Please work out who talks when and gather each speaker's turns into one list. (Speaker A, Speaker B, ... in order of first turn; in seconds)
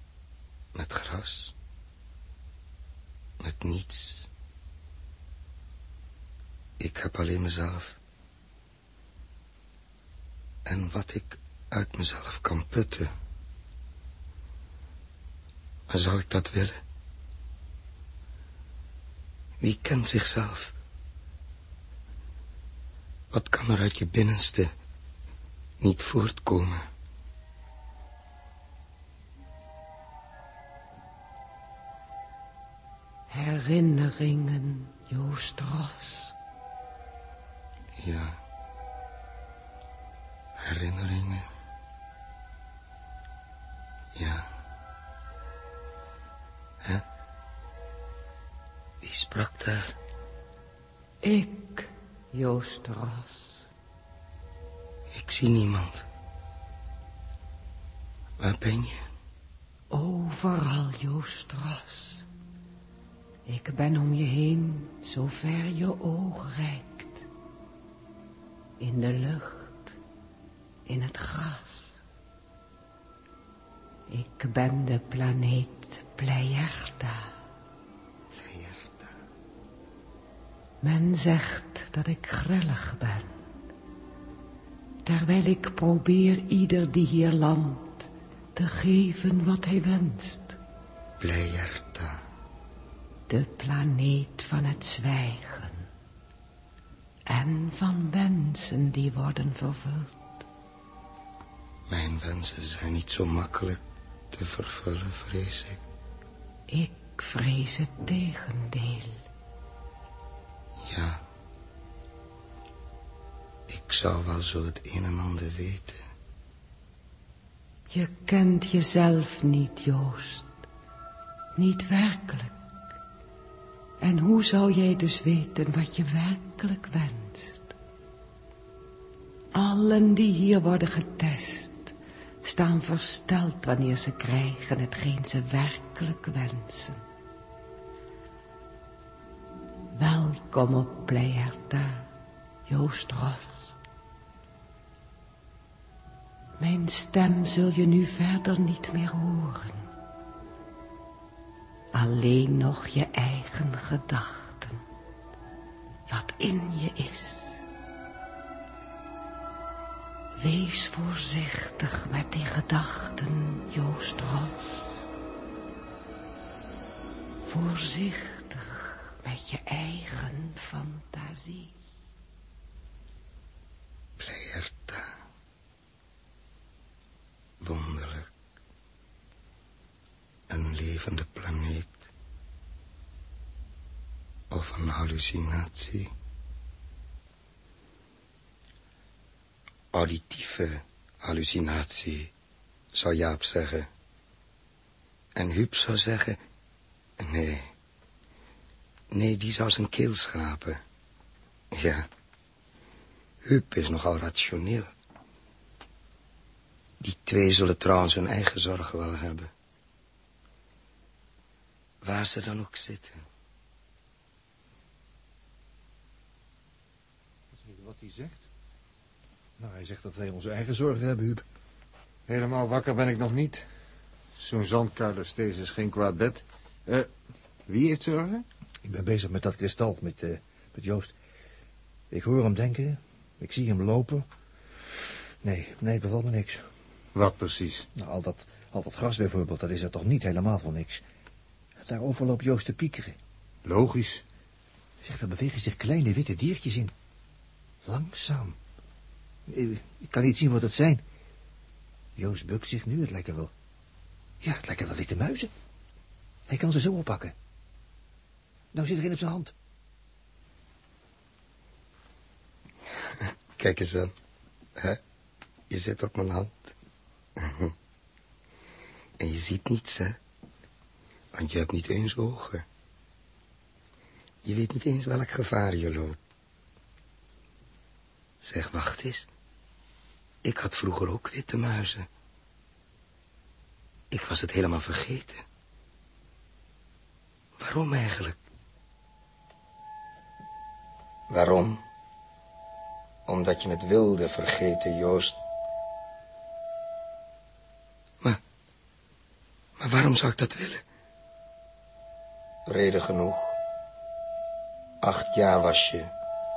Speaker A: 0.7-1.5, 3.4-4.3, 6.8-8.0, 10.7-13.1, 15.9-16.8, 19.6-20.7, 23.3-24.7, 25.8-26.9, 38.0-38.4, 40.6-41.5, 44.1-44.5, 49.0-49.9, 55.1-56.0, 58.4-59.0, 78.3-79.1, 91.2-92.2, 101.9-103.8, 104.3-105.8, 110.8-111.2, 113.7-116.0, 174.2-175.1, 177.6-178.3, 180.5-182.0, 184.5-186.1, 189.9-192.3, 192.9-193.9, 195.4-196.4, 197.2-197.7, 199.1-200.8, 201.7-202.1, 203.4-204.9, 207.0-209.5, 212.0-213.2, 263.6-264.1, 265.7-266.7, 267.4-267.7, 269.2-270.2, 271.3-272.6, 274.4-276.2, 278.4-279.3, 280.4-282.1, 284.1-285.4, 287.6-288.4, 291.3-291.8, 293.3-295.4, 299.8-300.8, 302.7-303.5, 305.0-306.1
Speaker B: 33.3-36.3, 51.2-53.7, 59.9-62.3, 63.5-67.2, 68.8-70.0, 70.9-72.0, 74.1-77.3, 80.8-83.3, 85.0-90.6, 93.3-95.9, 97.3-100.4, 106.7-109.2, 117.9-120.5, 121.5-122.5, 124.0-127.7, 129.5-137.0, 139.9-142.1, 142.7-143.8, 146.6-149.9, 151.9-154.8, 156.1-157.6, 160.4-164.9, 167.5-171.7
Speaker C: 217.5-218.4, 219.6-221.4, 228.8-231.1, 232.1-234.3, 235.4-236.6, 237.9-241.0, 241.8-243.2, 245.0-246.9, 247.8-248.6, 249.5-251.0, 252.2-253.5, 254.4-255.5, 256.5-257.3, 258.7-259.5
Speaker D: 222.3-223.6, 224.4-227.1, 227.7-228.5, 237.1-237.9, 243.7-244.2